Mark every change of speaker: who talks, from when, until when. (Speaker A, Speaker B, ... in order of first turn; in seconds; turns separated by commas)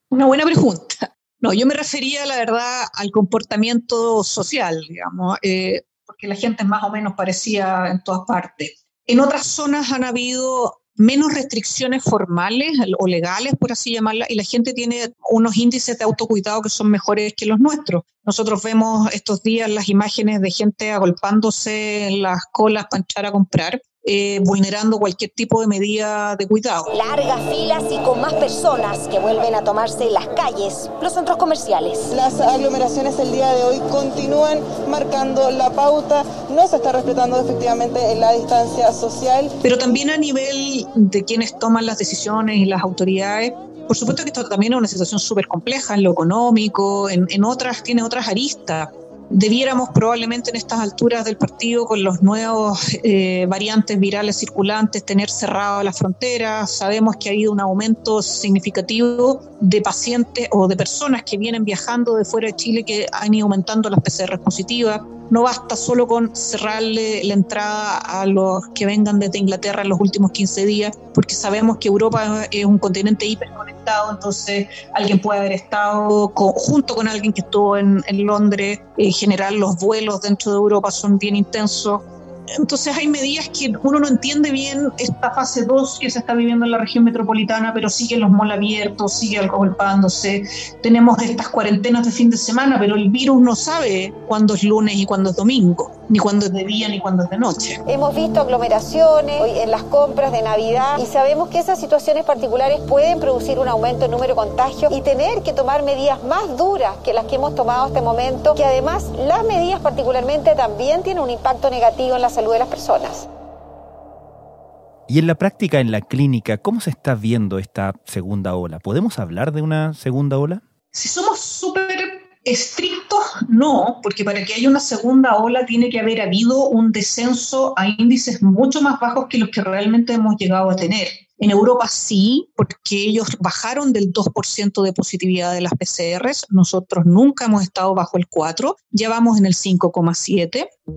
Speaker A: 0.1-26.9, Speaker B: 26.9-32.1, Speaker C: 32.1-39.5, Speaker A: 39.6-82.0, Speaker A: 82.6-97.8, Speaker D: 97.9-113.3, Speaker E: 115.1-120.6, Speaker A: 120.9-140.7